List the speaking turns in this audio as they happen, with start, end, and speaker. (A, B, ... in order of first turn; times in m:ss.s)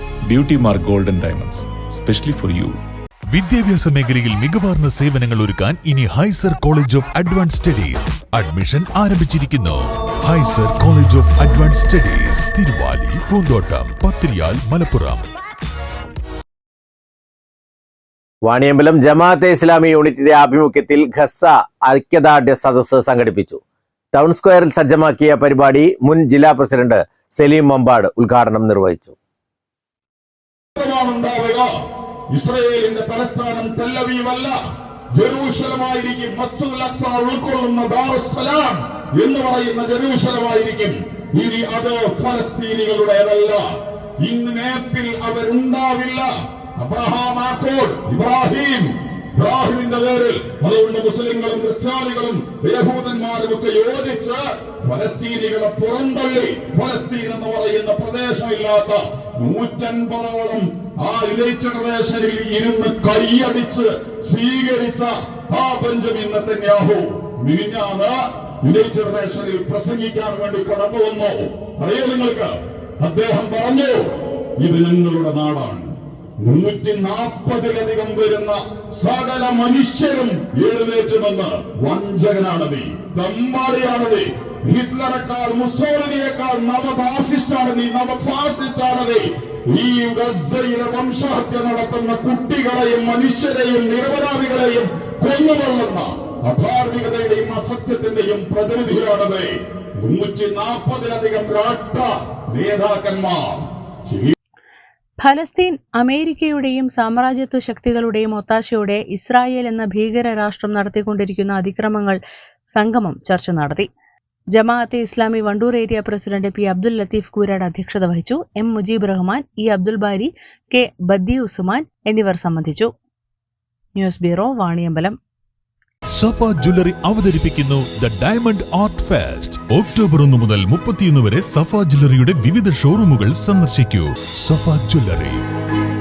0:00.2-0:02.8 A
0:03.3-0:15.2 B
0:18.4-0:23.6 C
0:24.1-0:29.2 C
0:30.8-0:31.7 D
0:32.3-0:34.5 D
0:35.2-0:43.6 D
0:44.2-1:44.3 D
1:45.2-1:52.2 E
1:52.7-1:53.9 E
1:54.5-2:02.9 E
2:04.0-2:05.2 E
2:06.1-2:15.4 B